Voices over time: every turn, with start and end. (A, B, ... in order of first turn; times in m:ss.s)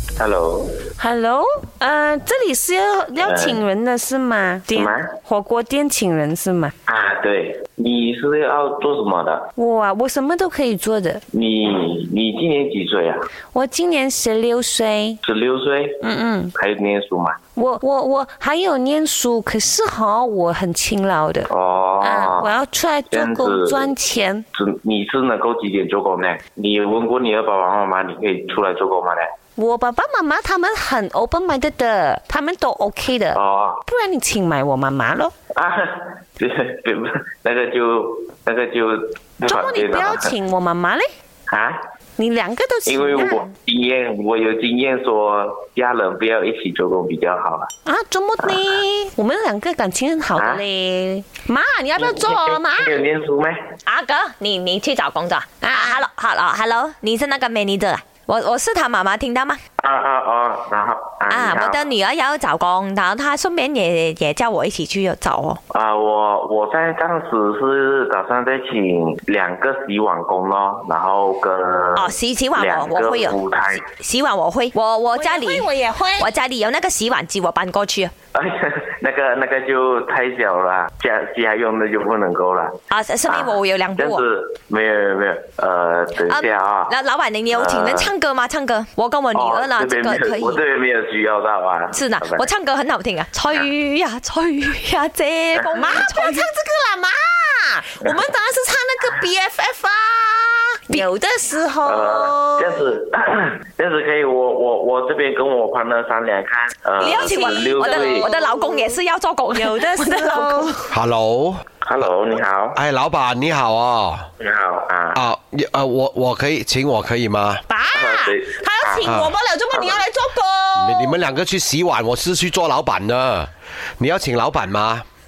0:00.2-0:00.8 A
0:01.0-0:06.7 B
0:03.2-0:03.6 A
0:04.7-0:05.1 A
0:06.9-0:09.5 A
0:09.6-0:11.2 B
0:11.3-0:13.2 A
0:13.5-0:15.2 B
0:15.2-0:16.0 A
0:16.0-0:16.5 B
0:16.6-0:17.4 A
0:17.6-0:21.5 B
0:21.5-0:22.5 A
0:22.0-0:24.4 B
0:23.1-0:23.9 A
0:24.5-0:29.3 A
0:29.6-0:35.3 B
0:33.4-0:33.8 A
0:35.5-0:40.3 A
0:39.5-0:41.1 B
0:41.5-0:41.8 A
0:42.2-0:43.5 B
0:42.9-0:47.7 A
0:47.8-0:53.0 B
0:50.4-0:50.6 A
0:52.0-0:53.6 A
0:53.9-0:59.6 C
0:55.6-0:56.0 B
0:59.8-1:01.8 A
1:01.3-1:05.6 C
1:05.7-1:13.8 A
1:12.0-1:15.7 C
1:15.1-1:16.3 B
1:16.2-1:18.1 C
1:18.3-1:22.8 A
1:22.9-1:24.2 C
1:23.3-1:26.9 A
1:26.2-1:30.6 C
1:27.5-1:28.1 A
1:29.4-1:32.5 A
1:31.9-1:36.5 C
1:35.8-1:42.9 B
1:41.8-1:48.3 A
1:47.0-1:50.8 C
1:47.0-1:49.0 B
1:49.5-1:50.8 B
1:50.9-1:52.1 D
1:51.8-1:52.8 A
1:52.8-1:54.3 D
1:54.4-1:55.2 A
1:55.1-1:57.6 D
1:57.7-2:01.2 B
1:57.9-1:59.1 A
1:59.0-1:59.4 D
1:59.7-2:00.0 A
2:00.8-2:05.0 D